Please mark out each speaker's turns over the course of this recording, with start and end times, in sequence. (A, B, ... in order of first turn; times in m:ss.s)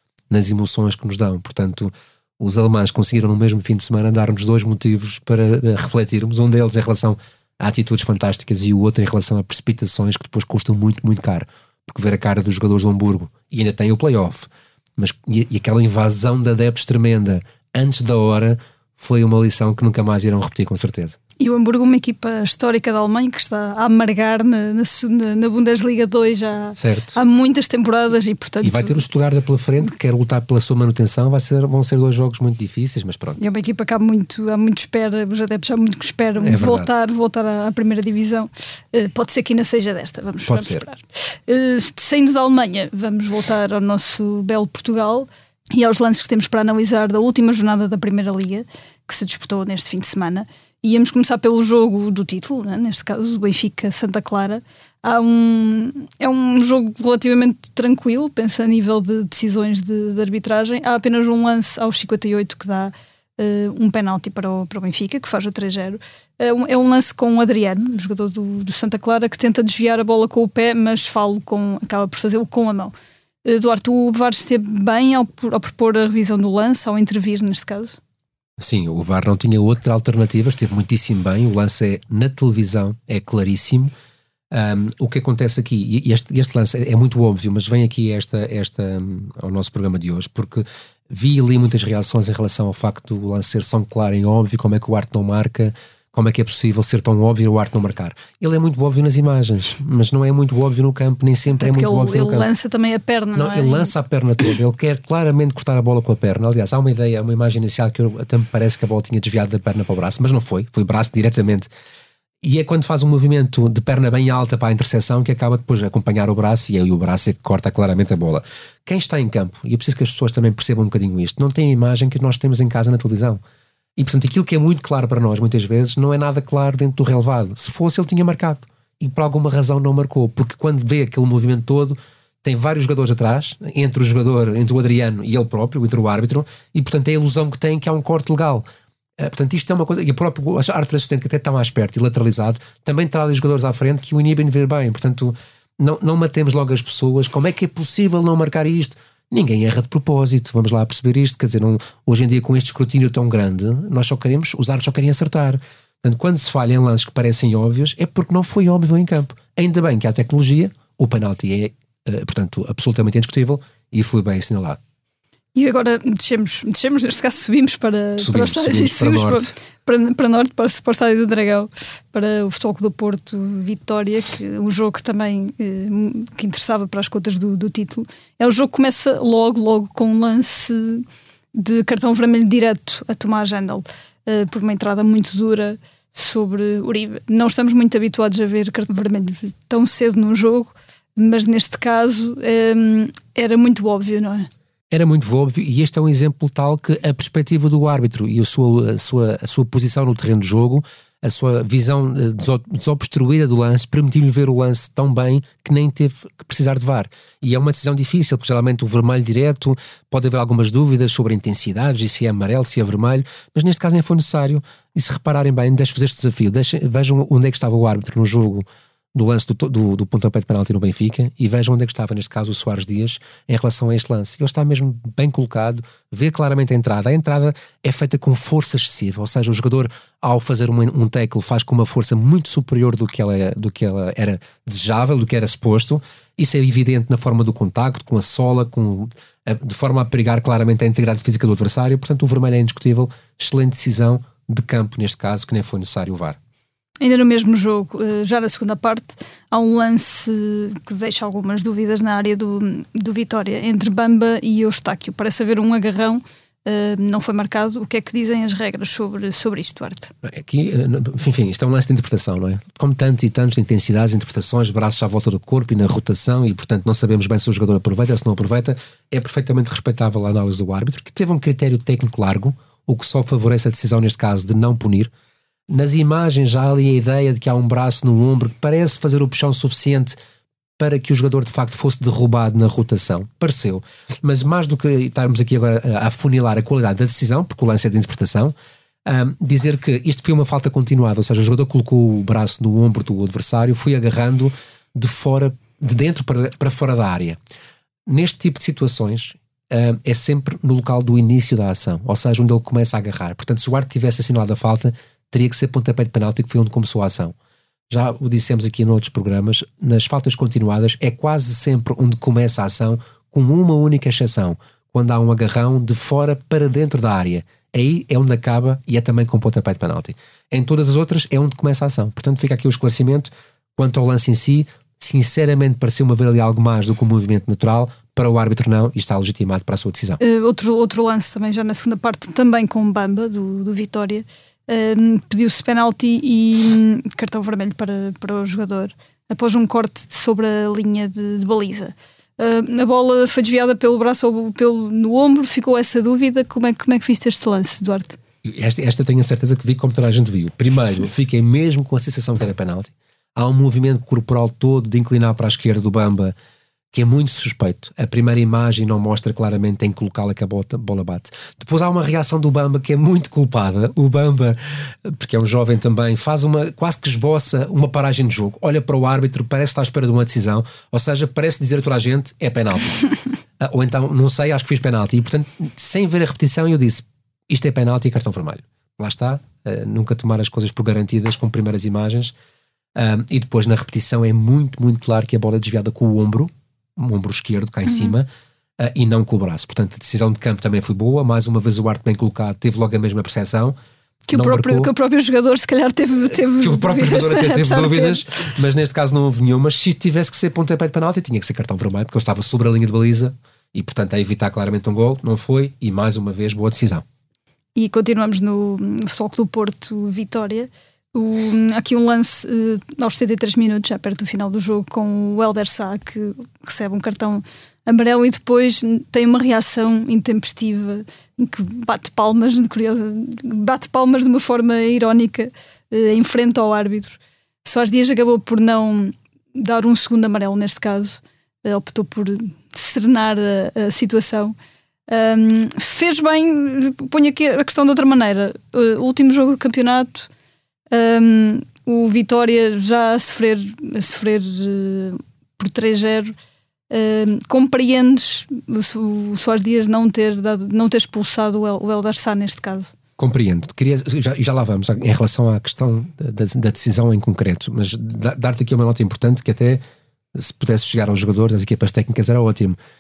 0:00.3-0:21.2 A
0:21.4-0:29.0 B
0:26.8-0:27.2 A
0:28.6-0:33.4 A
0:33.4-1:12.9 B
0:36.4-0:36.9 A
0:40.4-0:40.9 A
1:13.4-1:18.0 B
1:18.6-1:23.9 A
1:24.5-1:42.5 A
1:41.6-1:43.9 B
1:43.4-1:51.7 A
1:52.4-2:03.4 A
2:04.0-2:18.6 A
2:19.2-2:44.8 A
2:45.6-3:14.5 B
2:48.2-2:49.5 A
3:14.9-4:06.4 A
4:07.0-4:20.1 B
4:20.2-4:35.1 A
4:35.7-4:40.2 A
4:40.8-4:48.5 A
4:49.0-4:57.4 A
4:58.1-5:07.4 A
5:07.9-5:30.2 A
5:30.2-5:48.2 B
5:48.4-5:56.4 A
5:56.9-6:13.1 A
6:13.6-6:22.3 A
6:23.0-6:28.3 A
6:27.9-6:28.2 B
6:28.8-6:33.8 A
6:34.3-6:38.2 B
6:34.3-6:34.9 A
6:36.6-6:47.0 A
6:47.8-7:14.6 B
7:15.1-7:20.3 B
7:20.9-7:26.4 B
7:26.9-7:32.9 B
7:33.2-7:39.8 A
7:40.3-7:42.8 A